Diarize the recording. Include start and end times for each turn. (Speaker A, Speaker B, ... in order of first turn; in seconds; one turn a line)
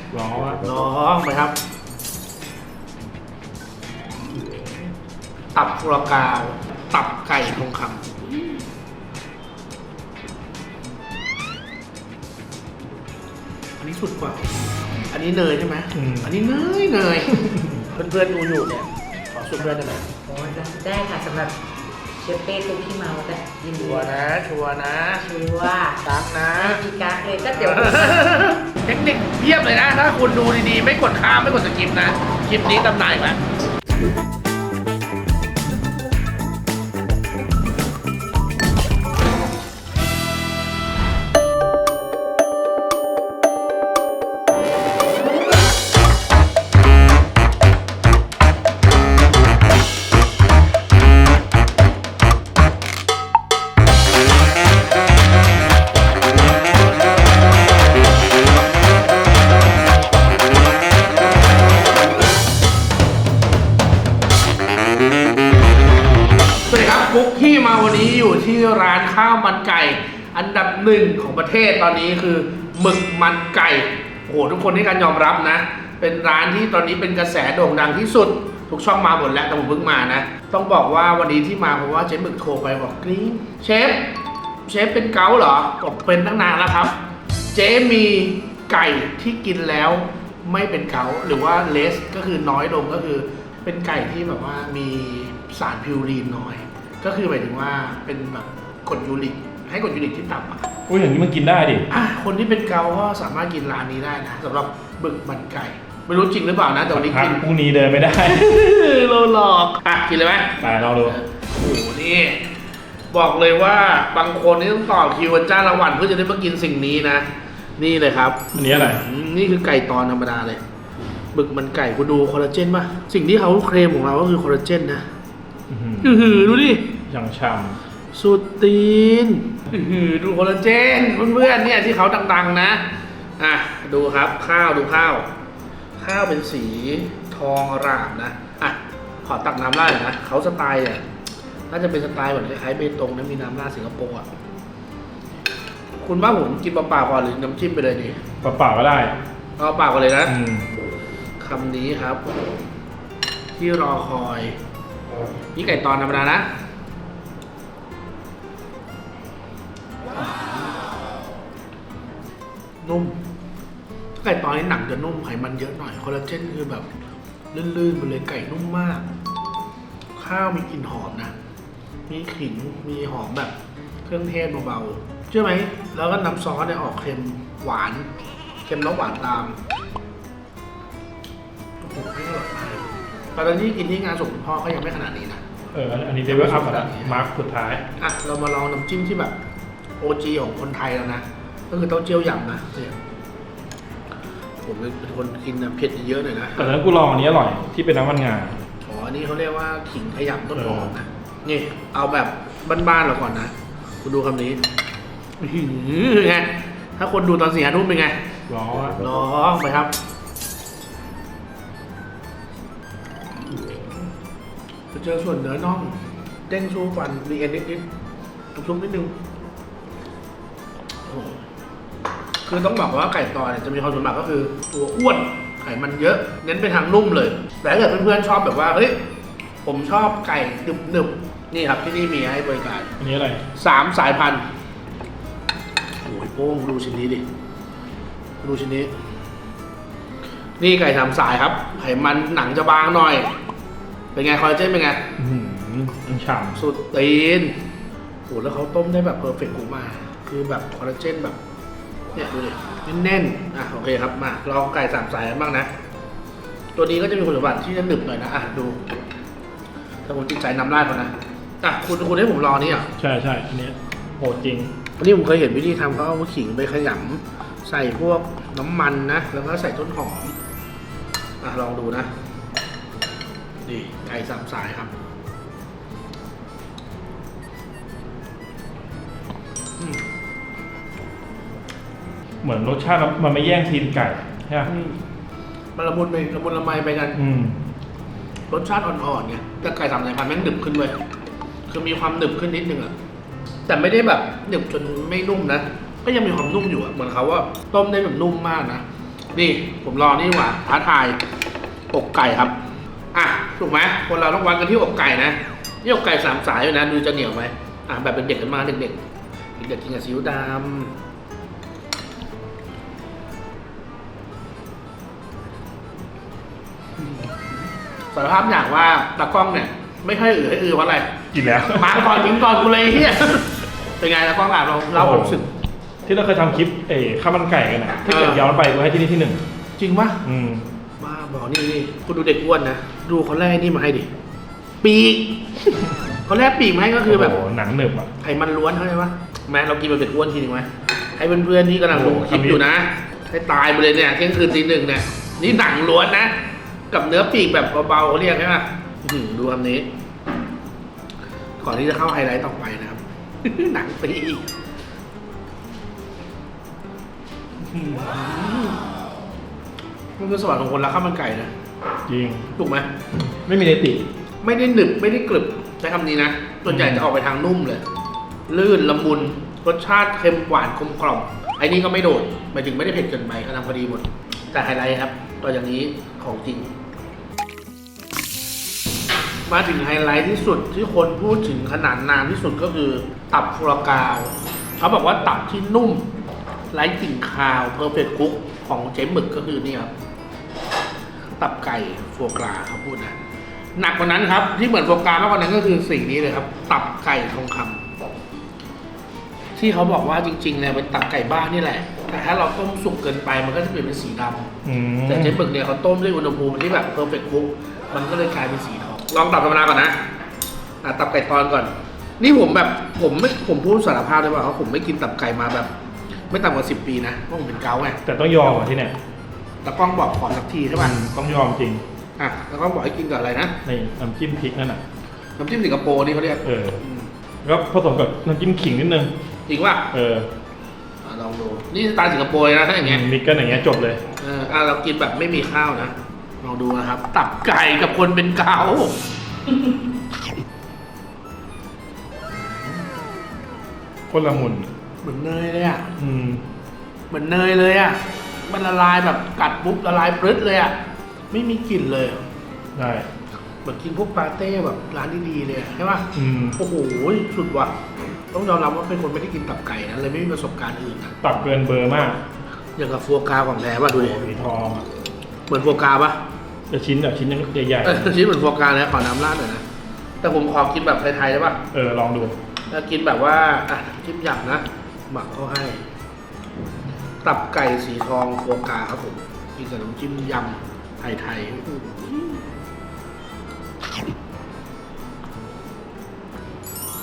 Speaker A: 0.1-0.6
Speaker B: 0.6-1.6
Speaker B: 5.5-8.2
Speaker B: 13.8-17.3
Speaker A: 15.9-16.3
Speaker A: 17.3-17.9
Speaker B: 17.9-20.0
Speaker C: 20.3-21.6
Speaker C: 22.2-24.2
Speaker B: 23.8-25.2
Speaker C: 25.2-26.0
Speaker B: 26.0-26.8
Speaker C: 26.6-28.3
Speaker B: 27.5-33.4
Speaker B: 66.7-84.1
Speaker B: 84.7-87.0
Speaker B: 87.5-100.7
Speaker A: 100.9-101.9
Speaker B: 101.9-107.4
Speaker A: 106.9-108.5
Speaker B: 108.2-112.4
Speaker A: 110.6-111.2
Speaker B: 113.1-117.2
Speaker B: 117.8-120.6
Speaker A: 118.5-119.0
Speaker B: 121.3-125.0
Speaker A: 125.7-126.3
Speaker B: 126.0-127.0
Speaker A: 127.0-127.8
Speaker B: 128.1-135.3
Speaker B: 136.0-141.0
Speaker B: 141.7-144.3
Speaker B: 146.0-148.2
Speaker A: 148.4-149.2
Speaker B: 149.6-150.4
Speaker A: 150.3-150.7
Speaker B: 151.4-152.2
Speaker B: 153.6-154.6
Speaker B: 155.5-156.5
Speaker B: 162.8-163.2
Speaker B: 164.2-166.9
Speaker B: 167.5-169.0
Speaker B: 170.2-171.3
Speaker B: 172.1-173.5
Speaker B: 174.0-178.1
Speaker B: 178.7-179.6
Speaker B: 181.8-185.4
Speaker A: 185.7-187.8
Speaker B: 186.2-187.2
Speaker B: 188.0-189.4
Speaker B: 190.0-192.9
Speaker B: 194.7-196.7
Speaker A: 196.6-198.6
Speaker B: 198.8-204.7
Speaker A: 200.5-200.9
Speaker B: 205.4-208.2
Speaker A: 208.5-209.0
Speaker B: 209.0-209.9
Speaker B: 214.9-217.8
Speaker B: 218.5-219.2
Speaker B: 221.0-221.4
Speaker B: 222.4-229.0
Speaker B: 229.6-232.9
Speaker A: 233.0-233.4
Speaker B: 233.5-234.5
Speaker B: 236.0-237.2
Speaker B: 238.4-238.9
Speaker B: 240.6-243.3
Speaker B: 244.1-245.1
Speaker A: 245.2-246.6
Speaker B: 246.6-247.6
Speaker B: 248.3-251.4
Speaker B: 252.1-255.7
Speaker B: 256.7-258.8
Speaker B: 260.1-262.9
Speaker A: 263.0-264.8
Speaker B: 265.0-270.3
Speaker B: 271.4-272.1
Speaker B: 273.6-274.9
Speaker A: 282.4-284.7
Speaker B: 284.6-285.0
Speaker B: 285.8-287.2
Speaker A: 287.1-287.6
Speaker B: 288.5-291.0
Speaker B: 291.7-292.9
Speaker B: 293.7-301.2
Speaker B: 301.9-302.5
Speaker B: 303.1-309.0
Speaker B: 309.6-311.0
Speaker B: 317.0-317.6
Speaker B: 318.1-325.5
Speaker A: 321.3-322.5
Speaker A: 324.9-325.4
Speaker A: 326.0-329.4
Speaker B: 328.1-328.5
Speaker B: 329.8-330.2
Speaker A: 330.2-330.7
Speaker B: 331.0-334.1
Speaker B: 334.8-335.5
Speaker B: 336.2-337.4
Speaker A: 337.0-338.1
Speaker B: 338.2-349.9
Speaker A: 341.9-342.6
Speaker B: 351.6-354.5
Speaker B: 357.7-358.8
Speaker B: 360.2-361.5
Speaker A: 362.1-362.5
Speaker B: 362.5-362.9
Speaker A: 363.2-364.1
Speaker B: 364.4-367.8
Speaker A: 366.7-367.1
Speaker B: 368.5-376.7
Speaker B: 379.5-386.1
Speaker B: 386.7-389.9
Speaker B: 391.4-393.2
Speaker B: 393.8-397.8
Speaker B: 399.6-404.5
Speaker A: 404.6-405.4
Speaker B: 405.1-410.1
Speaker B: 410.8-415.7
Speaker B: 416.3-418.0
Speaker A: 418.0-418.9
Speaker B: 419.6-421.0
Speaker A: 420.8-421.8
Speaker B: 422.2-423.6
Speaker A: 423.6-424.8
Speaker B: 425.4-427.1
Speaker A: 426.4-426.8
Speaker A: 427.4-429.1
Speaker B: 429.5-429.9
Speaker A: 429.9-430.3
Speaker B: 431.0-433.1
Speaker A: 432.8-434.0
Speaker B: 434.2-439.0
Speaker A: 444.1-444.7
Speaker B: 445.0-445.9
Speaker A: 446.0-446.4
Speaker B: 447.1-450.8
Speaker B: 451.3-452.2
Speaker A: 452.7-453.1
Speaker B: 453.6-457.7
Speaker A: 456.1-456.6
Speaker B: 458.3-461.2
Speaker A: 461.2-462.2
Speaker B: 462.8-464.2
Speaker A: 463.9-464.8
Speaker B: 465.5-466.2
Speaker A: 466.7-468.0
Speaker B: 467.8-469.6
Speaker B: 470.2-471.6
Speaker A: 471.7-472.4
Speaker B: 472.7-475.8
Speaker B: 477.2-482.5